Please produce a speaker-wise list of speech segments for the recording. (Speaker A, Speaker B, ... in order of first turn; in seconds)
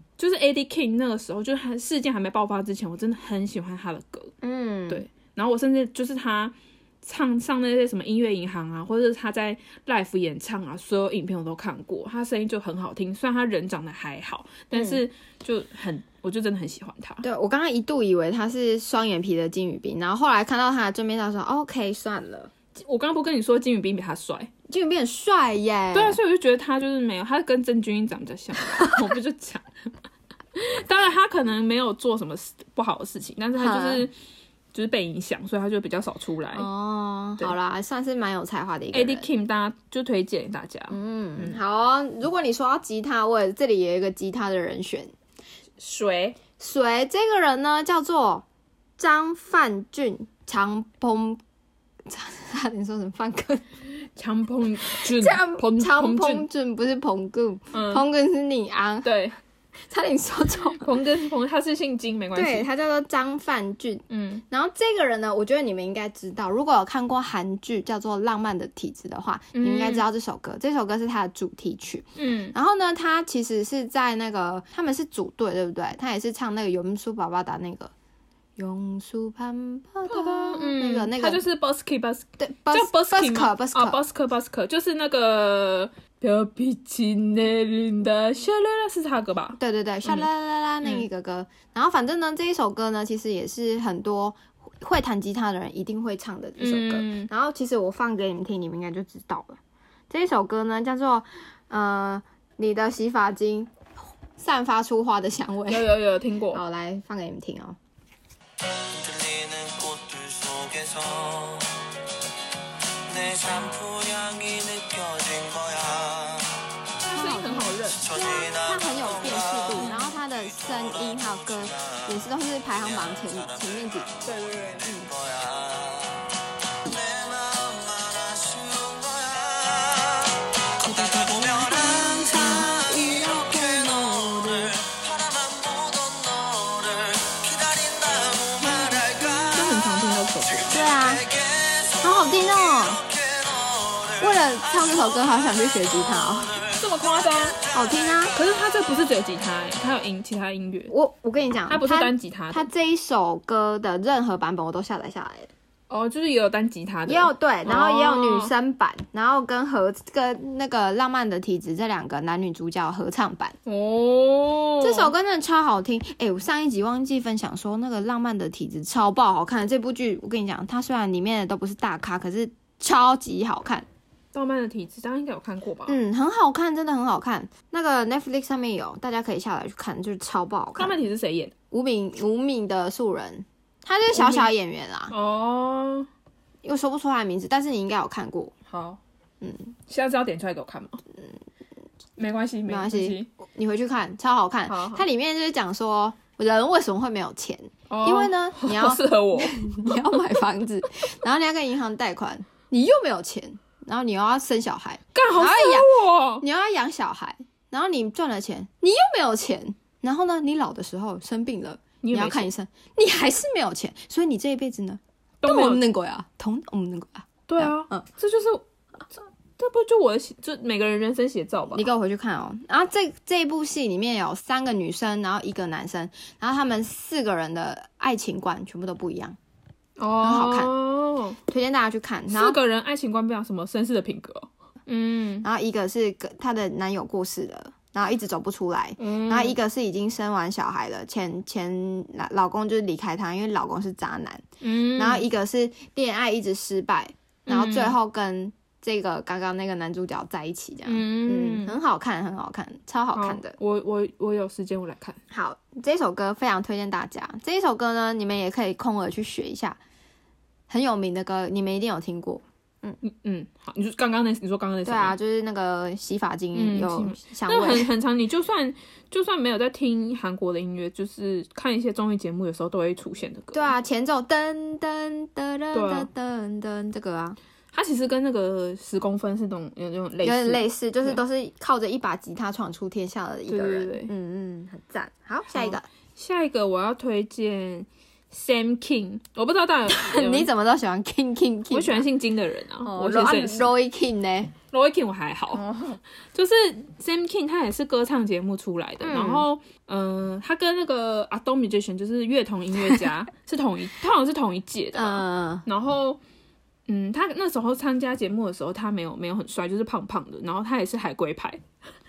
Speaker A: 0.2-4.3, 4.9-17.2, 22.8-24.5, 25.9-29.9, 30.5-34.1, 34.7-36.7, 38.9-41.6, 45.8-46.4, 54.1-56.5, 57.7-58.0, 59.0-59.4, 60.8-62.7, 64.1-64.4, 69.5-70.0, 72.2-72.5, 80.1-90.3, 96.6-97.3, 105.7-106.6, 117.0-118.1, 119.7-120.1, 124.2-125.1, 139.5-140.8, 146.8-147.6, 148.3-150.9, 151.7-152.7, 155.9-158.5, 163.6-165.1, 174.3-176.0, 180.8-181.5, 184.1-184.5, 185.1-186.1, 188.7-189.0, 189.9-191.0, 192.2-193.3, 194.7-195.1, 197.9-200.2, 205.1-206.4, 212.0-212.5, 215.4-215.8, 217.5-218.6, 219.2-221.9, 230.0-231.4, 232.3-235.4, 239.0-239.6, 244.6-245.2, 247.5-247.9, 250.8-251.8, 253.1-255.2, 263.0-265.1, 266.5-273.7, 275.7-276.1, 277.7-281.2, 283.5-284.1, 285.5-290.5, 291.7-293.7, 294.7-295.6, 296.3-306.2, 306.9-311.6
Speaker B: 4.4-5.0, 14.7-15.0, 17.2-22.5, 24.7-26.2, 33.6-34.1, 36.5-39.3, 40.9-45.1, 46.6-48.4, 49.0-51.4, 52.0-53.7, 54.9-59.1, 59.9-60.9, 62.3-77.9, 78.6-81.4, 82.4-84.0, 89.6-99.6, 100.1-103.7, 104.4-105.9, 106.5-107.8, 117.1-124.1, 130.8-134.8, 138.6-139.0, 140.7-141.3, 142.0-143.0, 144.2-146.6, 147.7-148.3, 150.9-155.5, 157.1-163.6, 164.8-173.8, 175.9-181.0, 181.7-185.1, 186.6-188.5, 189.4-189.7, 192.7-218.1, 221.7-229.4, 230.2-230.7, 231.5-232.6, 235.4-253.6, 255.3-259.8, 260.7-263.0, 264.8-267.9, 273.5-277.4, 280.2-285.9, 289.9-292.1, 292.8-294.5, 295.6-296.0, 299.0-299.4, 304.9-305.6
Speaker C: 108.9-111.7, 113.1-116.5, 118.2-118.6, 125.1-126.1, 126.8-130.2, 131.0-132.7, 134.8-139.6, 141.3-141.9, 143.3-144.0